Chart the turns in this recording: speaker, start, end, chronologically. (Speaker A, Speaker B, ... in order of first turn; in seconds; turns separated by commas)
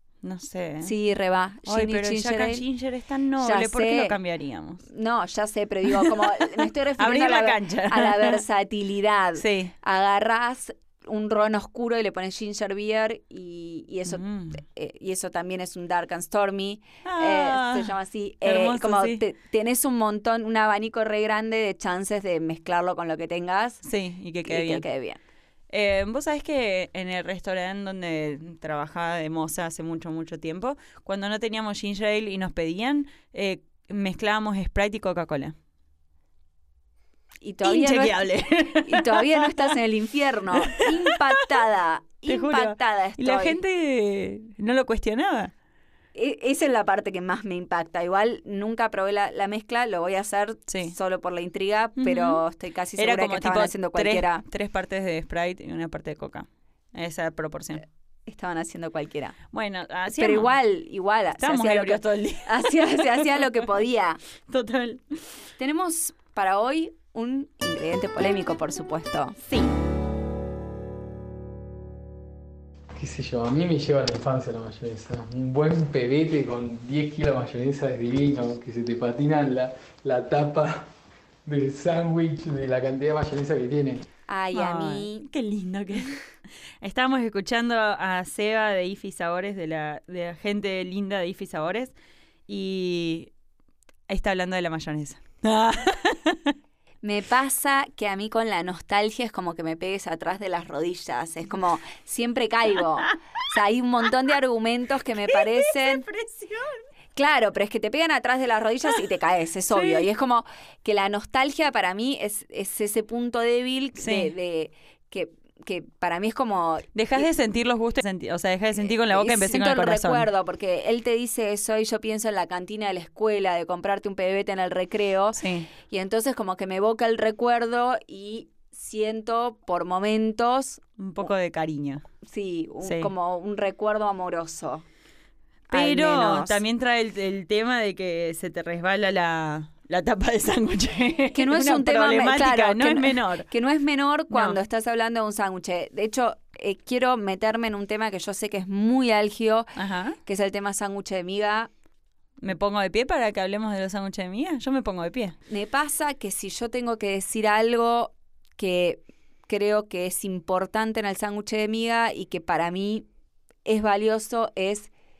Speaker A: 0.2-0.9, Speaker B: 0.8-2.6, Speaker A: 1.6-4.8, Speaker B: 3.4-4.2, Speaker B: 4.9-23.8, Speaker A: 5.9-8.4, Speaker A: 9.4-9.7, Speaker A: 14.1-14.6, Speaker A: 17.0-19.2, Speaker A: 23.8-24.8, Speaker B: 24.4-25.2, Speaker A: 25.7-35.5, Speaker B: 37.4-38.3, Speaker A: 37.6-39.6, Speaker B: 38.8-43.6, Speaker A: 40.6-41.1, Speaker A: 42.2-45.5, Speaker B: 46.1-54.4, Speaker A: 50.7-51.0, Speaker A: 52.0-52.4, Speaker A: 53.0-57.8, Speaker B: 58.3-59.4, Speaker A: 59.5-60.5, Speaker B: 60.1-64.2, Speaker A: 61.4-63.4, Speaker A: 64.5-65.2, Speaker B: 65.6-69.7, Speaker C: 73.0-80.8, Speaker C: 81.5-84.0, Speaker B: 84.3-85.2, Speaker A: 84.5-86.2, Speaker A: 86.8-91.9, Speaker A: 92.5-93.3, Speaker A: 94.1-96.5, Speaker B: 97.0-106.0, Speaker A: 105.3-106.8, Speaker B: 107.1-117.2, Speaker A: 109.7-110.0, Speaker A: 114.0-114.3, Speaker A: 116.9-120.3, Speaker B: 118.8-131.3, Speaker A: 125.3-125.7, Speaker A: 131.0-132.0, Speaker B: 132.2-134.8, Speaker A: 132.8-133.1, Speaker B: 135.7-136.6, Speaker A: 135.7-143.5, Speaker B: 141.3-149.7, Speaker A: 144.3-144.6, Speaker A: 149.8-150.2, Speaker B: 150.2-151.7, Speaker A: 152.4-155.3, Speaker B: 155.5-163.1, Speaker B: 163.6-164.9